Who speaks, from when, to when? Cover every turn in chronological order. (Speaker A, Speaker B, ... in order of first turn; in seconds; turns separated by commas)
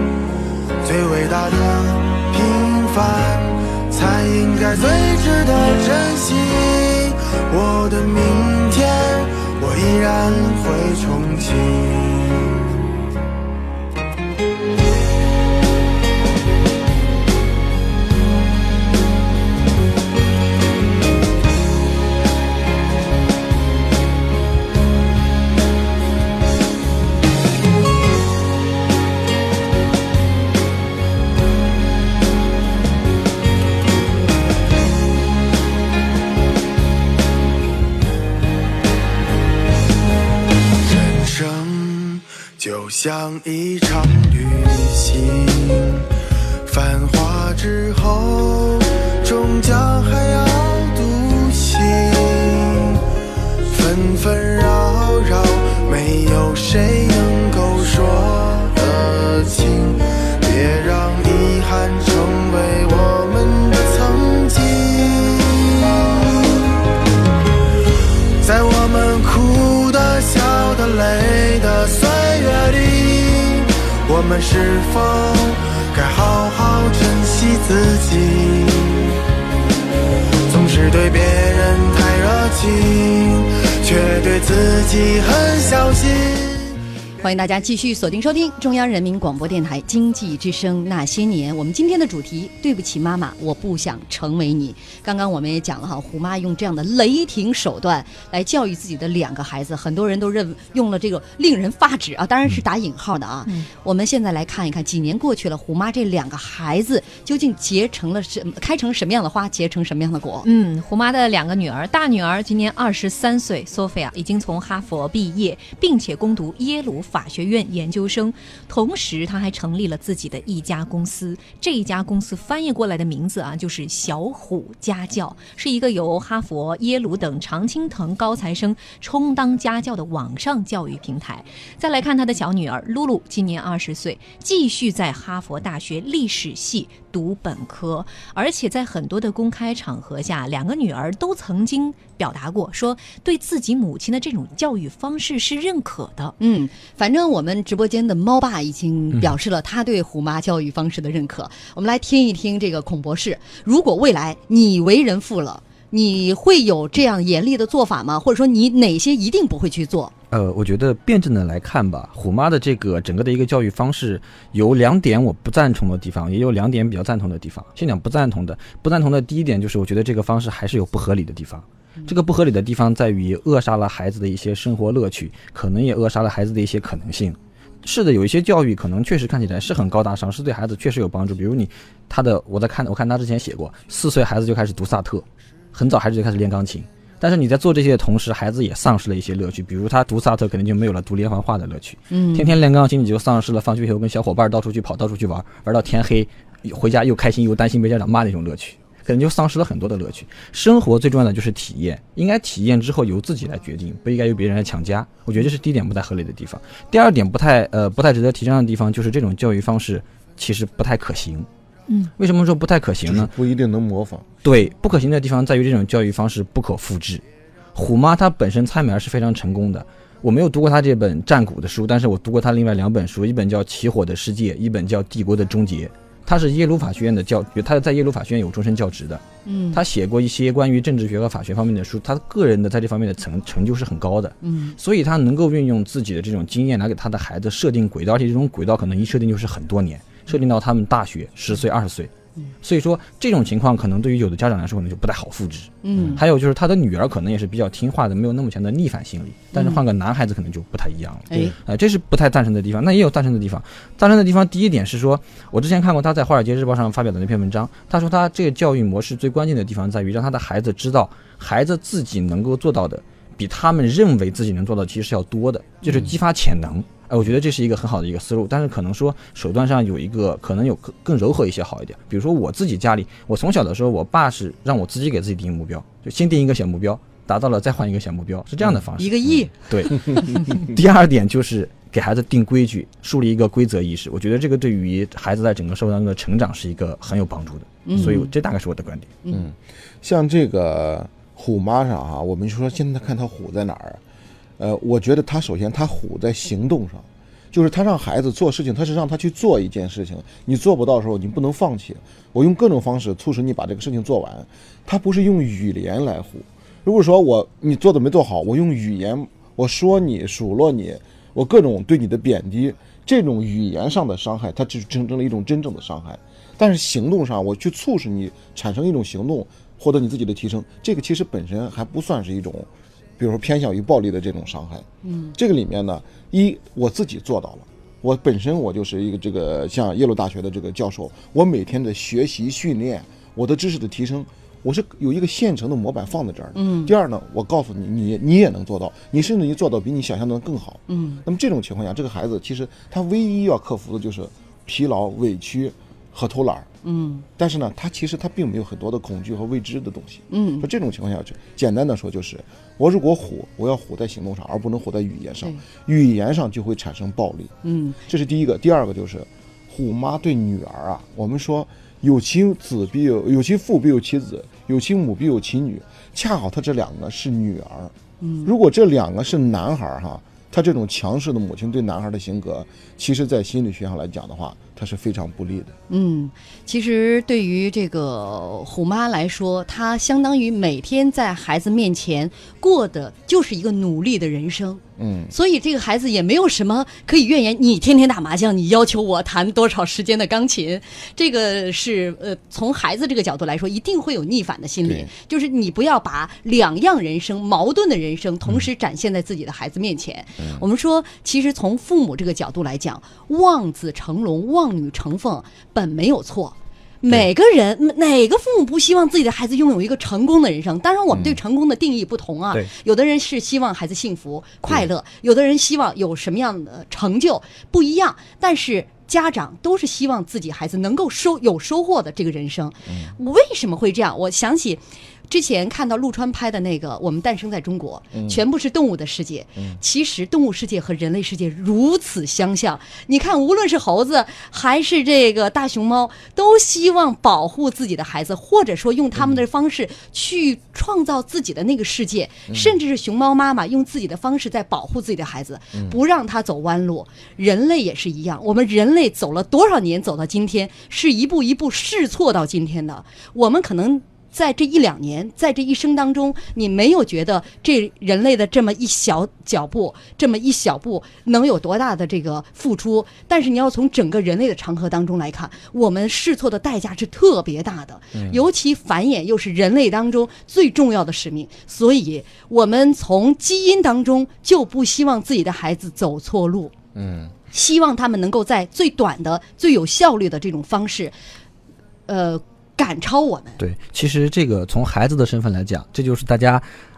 Speaker A: 0.8-12.5, Speaker A: 40.8-46.0, Speaker A: 46.6-53.0, Speaker A: 53.6-66.8, Speaker A: 68.4-79.1, Speaker A: 80.5-86.7, Speaker B: 87.2-110.5, Speaker C: 110.4-146.3, Speaker B: 146.4-160.1, Speaker D: 160.3-211.5, Speaker B: 192.1-192.5, Speaker C: 211.9-212.1, Speaker D: 212.2-213.3, Speaker E: 213.0-214.3, Speaker D: 214.4-217.2, Speaker D: 217.7-242.1, Speaker B: 229.4-229.8, Speaker B: 234.4-234.8, Speaker D: 242.6-289.1, Speaker B: 245.8-246.2, Speaker B: 249.5-249.8, Speaker B: 251.3-251.6, Speaker E: 265.9-266.1, Speaker B: 279.0-280.3, Speaker B: 287.9-288.3, Speaker E: 289.3-294.0, Speaker E: 294.6-346.7, Speaker B: 325.0-325.4, Speaker B: 336.5-336.9, Speaker B: 340.9-341.2, Speaker B: 346.8-347.3, Speaker E: 347.4-357.5, Speaker B: 350.3-350.7, Speaker B: 357.6-358.0, Speaker E: 358.1-367.9, Speaker B: 368.2-368.5, Speaker E: 368.4-375.7, Speaker B: 375.9-476.7, Speaker E: 385.0-385.3, Speaker E: 394.8-395.1, Speaker E: 400.4-400.6, Speaker E: 411.1-411.4, Speaker E: 422.9-423.1, Speaker E: 428.1-428.4, Speaker E: 442.5-442.8, Speaker E: 468.1-468.4, Speaker E: 476.9-477.3, Speaker B: 477.5-481.1, Speaker B: 482.1-483.6, Speaker D: 483.6-486.7